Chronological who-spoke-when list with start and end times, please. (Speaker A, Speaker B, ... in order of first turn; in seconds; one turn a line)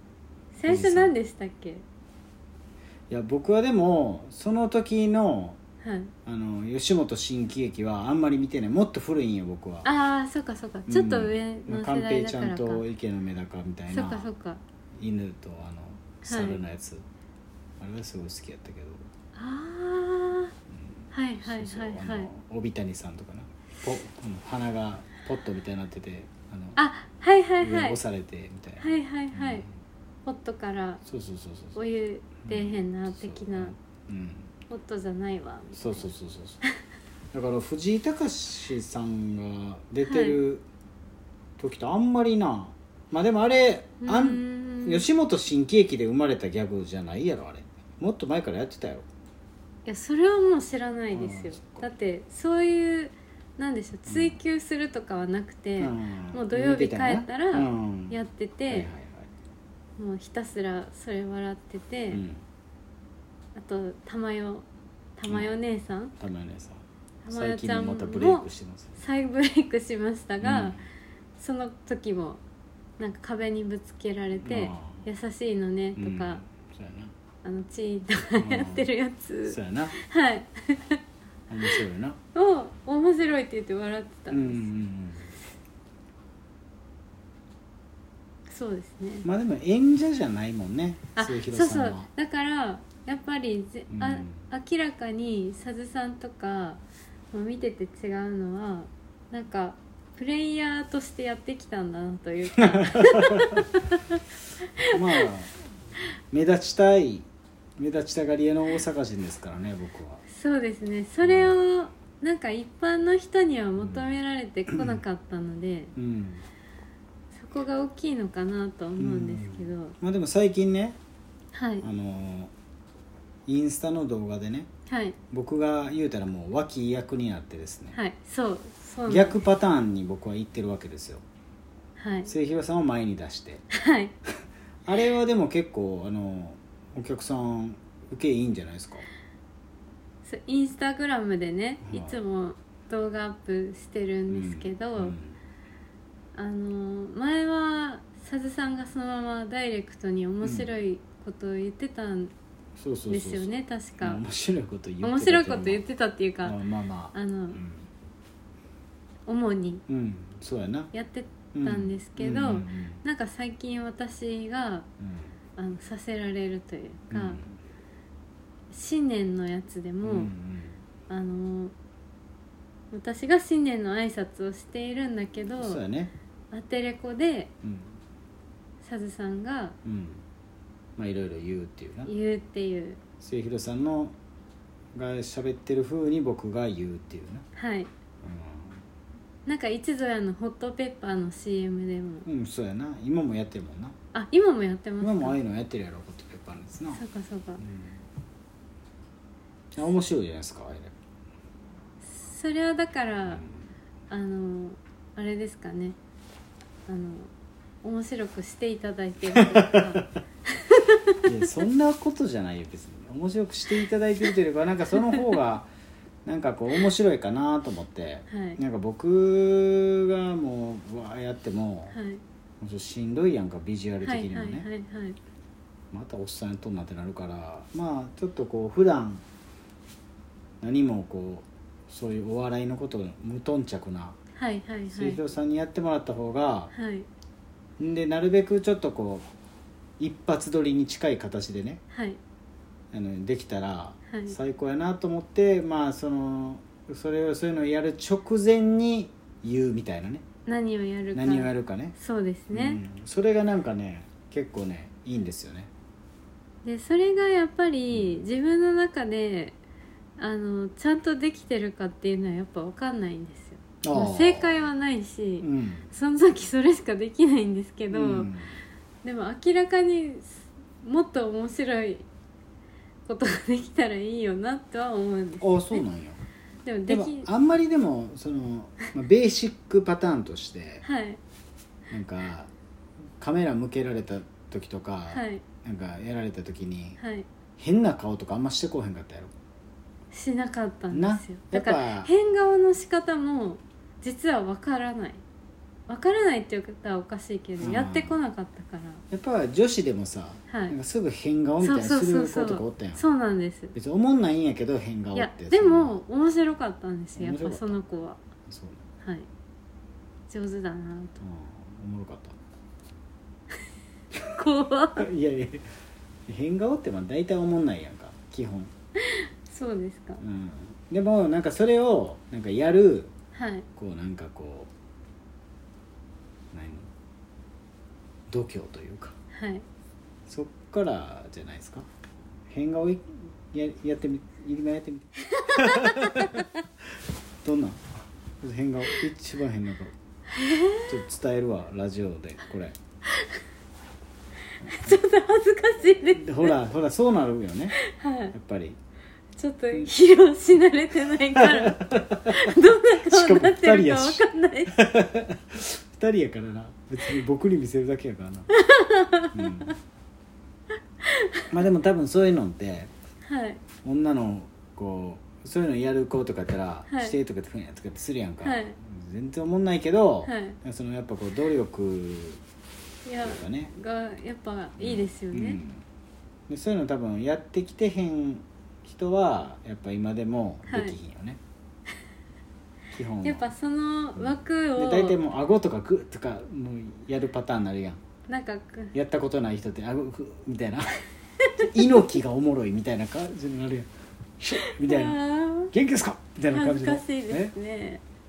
Speaker A: 0.5-1.8
Speaker B: 0.7-1.1
Speaker B: 3.1-5.6
Speaker A: 5.8-6.1
Speaker B: 6.3-9.9
Speaker A: 9.8-12.8
Speaker B: 10.9-14.3
Speaker A: 13.9-14.6
Speaker B: 15.0-17.0
Speaker A: 16.2-16.6
Speaker B: 17.8-19.1
Speaker A: 19.4-20.5
Speaker B: 20.7-26.8
Speaker A: 21.1-22.3
Speaker A: 26.8-28.0
Speaker B: 27.6-29.7
Speaker A: 28.8-29.6
Speaker A: 30.2-31.0
Speaker B: 31.1-31.8
Speaker A: 31.8-33.7
Speaker B: 32.5-34.5
Speaker A: 34.7-36.1
Speaker B: 35.8-36.6
Speaker B: 37.3-40.6
Speaker A: 40.0-40.4
Speaker B: 41.6-49.1
Speaker A: 44.0-45.1
Speaker A: 49.9-58.9
Speaker B: 51.1-51.9
Speaker B: 54.1-54.4
Speaker B: 55.8-58.2
Speaker B: 58.7-59.3
Speaker A: 60.0-62.2
Speaker B: 62.1-62.4
Speaker A: 63.6-64.7
Speaker A: 65.2-66.1
Speaker B: 65.3-65.5
Speaker B: 66.2-69.0
Speaker A: 67.2-70.8
Speaker B: 70.4-70.8
Speaker A: 71.4-72.4
Speaker A: 73.0-76.4
Speaker B: 74.4-75.0
Speaker B: 76.0-77.1
Speaker A: 77.4-81.0
Speaker B: 78.4-78.9
Speaker B: 79.5-80.0
Speaker B: 81.5-82.2
Speaker A: 82.3-84.7
Speaker B: 84.3-85.3
Speaker A: 88.5-89.3
Speaker B: 89.2-92.1
Speaker A: 91.2-96.8
Speaker B: 93.9-94.4
Speaker A: 97.3-104.2
Speaker B: 102.6-103.7
Speaker A: 104.8-105.3
Speaker B: 104.8-105.5
Speaker B: 106.3-110.2
Speaker A: 110.3-115.9
Speaker B: 111.2-111.6
Speaker B: 113.8-114.1
Speaker B: 114.7-115.0
Speaker B: 116.0-116.5
Speaker A: 117.3-120.0
Speaker B: 119.0-121.0
Speaker A: 121.5-121.9
Speaker B: 121.8-122.5
Speaker B: 123.5-124.7
Speaker A: 124.9-125.2
Speaker B: 125.3-128.0
Speaker A: 127.9-129.4
Speaker B: 129.1-131.2
Speaker A: 132.0-132.3
Speaker B: 132.3-133.7
Speaker A: 133.7-134.1
Speaker B: 134.8-139.1
Speaker A: 140.2-145.2
Speaker B: 141.8-142.2
Speaker B: 144.3-145.4
Speaker A: 146.3-152.3
Speaker B: 150.4-150.7
Speaker B: 152.8-155.8
Speaker A: 153.1-154.2
Speaker A: 155.0-156.6
Speaker B: 156.4-157.9
Speaker A: 157.1-157.6
Speaker A: 159.3-159.8
Speaker B: 159.9-160.9
Speaker A: 160.9-164.9
Speaker B: 161.5-163.0
Speaker B: 165.0-165.3
Speaker A: 165.6-167.4
Speaker B: 167.1-167.5
Speaker A: 168.7-170.3
Speaker B: 170.0-170.8
Speaker A: 171.1-171.7
Speaker A: 172.9-175.8
Speaker B: 175.6-176.1
Speaker A: 176.5-177.5
Speaker B: 177.6-178.0
Speaker A: 178.8-179.8
Speaker B: 179.8-180.2
Speaker B: 181.0-182.1
Speaker A: 182.1-183.0
Speaker B: 183.2-184.2
Speaker B: 184.9-187.5
Speaker A: 187.6-187.9
Speaker B: 188.2-188.8
Speaker A: 189.5-192.3
Speaker B: 192.2-194.0
Speaker A: 194.1-195.4
Speaker B: 195.0-197.0
Speaker A: 196.9-197.6
Speaker B: 197.6-198.0
Speaker B: 199.7-200.9
Speaker A: 202.0-203.4
Speaker B: 203.3-203.7
Speaker A: 204.1-206.0
Speaker A: 206.9-207.3
Speaker A: 207.8-211.2
Speaker B: 209.3-210.1
Speaker B: 211.2-215.7
Speaker B: 216.2-222.0
Speaker A: 218.3-218.6
Speaker A: 221.9-222.2
Speaker B: 222.6-224.7
Speaker A: 224.0-225.2
Speaker B: 225.9-229.2
Speaker B: 230.6-234.2
Speaker A: 234.4-235.2
Speaker B: 234.9-236.7
Speaker A: 236.7-237.1
Speaker B: 237.8-239.3
Speaker B: 240.0-241.8
Speaker A: 241.9-242.2
Speaker B: 242.9-250.2
Speaker A: 244.1-244.4
Speaker A: 250.5-252.8
Speaker B: 251.1-251.9
Speaker B: 252.5-255.7
Speaker A: 256.6-259.6
Speaker B: 257.9-258.2
Speaker A: 260.2-268.3
Speaker B: 263.8-264.6
Speaker B: 265.4-265.9
Speaker B: 267.9-268.6
Speaker A: 269.0-272.1
Speaker A: 273.1-275.8
Speaker B: 275.4-276.2
Speaker A: 276.6-277.3
Speaker B: 276.9-280.8
Speaker A: 280.8-281.2
Speaker B: 281.9-282.5
Speaker B: 283.2-287.0
Speaker A: 285.1-285.4
Speaker A: 287.0-287.3
Speaker B: 287.6-289.3
Speaker A: 290.1-295.2
Speaker B: 290.9-292.1
Speaker A: 295.9-299.0
Speaker B: 297.6-298.2
Speaker B: 299.1-303.0
Speaker A: 300.5-300.8
Speaker A: 301.6-303.8
Speaker B: 303.8-305.9
Speaker A: 305.1-308.2
Speaker B: 307.2-307.8
Speaker B: 308.5-308.9
Speaker A: 309.0-309.3
Speaker A: 310.3-311.2
Speaker B: 311.2-312.4
Speaker A: 314.3-315.1
Speaker B: 315.0-315.7
Speaker B: 316.3-318.7
Speaker A: 319.0-320.2
Speaker B: 320.2-323.1
Speaker A: 323.3-323.7
Speaker B: 323.8-324.7
Speaker B: 326.5-326.9
Speaker B: 328.3-329.2
Speaker A: 329.3-329.6
Speaker B: 330.3-331.9
Speaker B: 332.5-336.5
Speaker A: 335.3-336.5
Speaker B: 337.4-337.8
Speaker B: 338.4-339.9
Speaker A: 340.3-340.9
Speaker B: 340.9-342.8
Speaker A: 344.6-346.6
Speaker B: 344.6-345.0
Speaker B: 346.2-347.8
Speaker A: 347.8-348.3
Speaker B: 348.3-348.8
Speaker A: 349.4-354.8
Speaker B: 351.4-358.5
Speaker A: 358.5-359.7
Speaker B: 359.3-359.8
Speaker A: 361.0-361.5
Speaker B: 361.5-362.9
Speaker A: 363.2-363.6
Speaker B: 363.8-372.4
Speaker A: 366.9-367.2
Speaker A: 368.4-368.8
Speaker A: 370.2-370.6
Speaker A: 373.1-375.6
Speaker B: 373.2-373.7
Speaker B: 374.8-375.8
Speaker B: 376.5-381.4
Speaker A: 380.7-381.0
Speaker B: 382.9-383.5
Speaker A: 383.2-385.2
Speaker B: 384.2-388.0
Speaker A: 388.3-388.9
Speaker B: 388.9-391.0
Speaker A: 391.4-391.7
Speaker B: 391.6-395.2
Speaker A: 394.6-395.7
Speaker B: 395.7-397.5
Speaker A: 396.5-398.0